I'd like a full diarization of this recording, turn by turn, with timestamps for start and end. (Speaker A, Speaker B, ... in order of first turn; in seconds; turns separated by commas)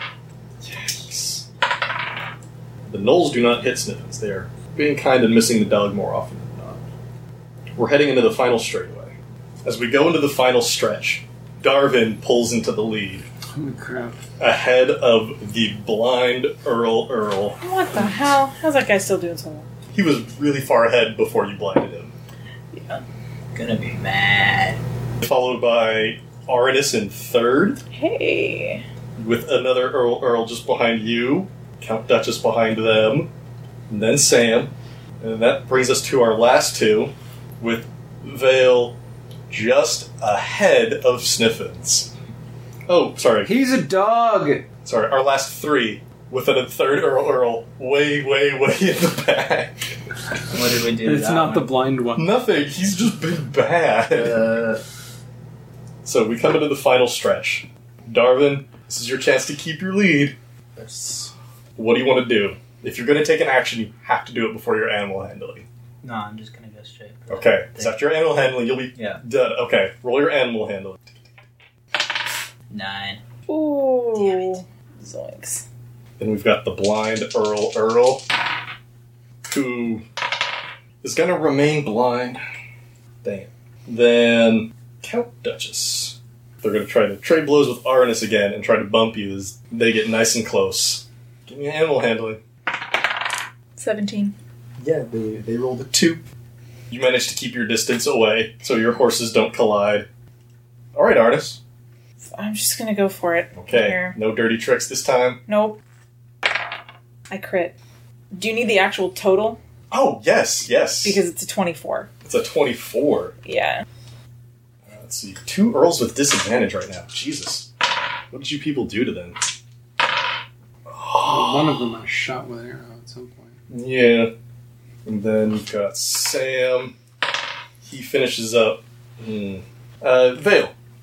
Speaker A: 0.6-1.5, Speaker A: 2.9-6.8, Speaker A: 7.8-13.3, Speaker B: 13.5-14.2, Speaker A: 14.4-17.6, Speaker C: 17.6-19.7, Speaker A: 19.9-22.1, Speaker C: 22.7-23.0, Speaker D: 23.5-24.8, Speaker A: 25.2-27.8, Speaker C: 27.9-28.8, Speaker A: 29.2-33.3, Speaker A: 33.9-39.0, Speaker A: 39.5-42.1, Speaker A: 42.9-43.5, Speaker B: 43.4-44.6, Speaker A: 44.8-49.9, Speaker D: 50.5-51.7, Speaker B: 51.0-52.3, Speaker A: 52.1-54.4, Speaker D: 54.1-54.8, Speaker A: 56.0-60.4, Speaker D: 60.8-61.3, Speaker A: 61.8-65.7, Speaker D: 66.0-68.0, Speaker A: 67.3-71.0, Speaker D: 68.9-69.2, Speaker D: 72.7-73.2, Speaker C: 73.5-75.6, Speaker A: 76.2-78.2, Speaker A: 79.4-80.0, Speaker A: 81.0-82.4, Speaker A: 83.2-92.4, Speaker C: 93.8-94.3, Speaker A: 94.8-96.2, Speaker A: 96.9-100.1, Speaker A: 100.9-101.6, Speaker C: 102.2-104.2, Speaker A: 103.5-105.4, Speaker C: 105.5-105.8, Speaker C: 107.3-107.7, Speaker C: 108.3-109.6, Speaker A: 109.9-111.2, Speaker C: 111.0-112.1, Speaker A: 112.2-113.3, Speaker C: 113.4-113.8, Speaker A: 114.9-117.7, Speaker A: 118.3-119.4, Speaker A: 120.9-121.9, Speaker B: 121.2-123.6, Speaker A: 123.7-124.3, Speaker A: 125.0-127.0, Speaker A: 127.8-130.7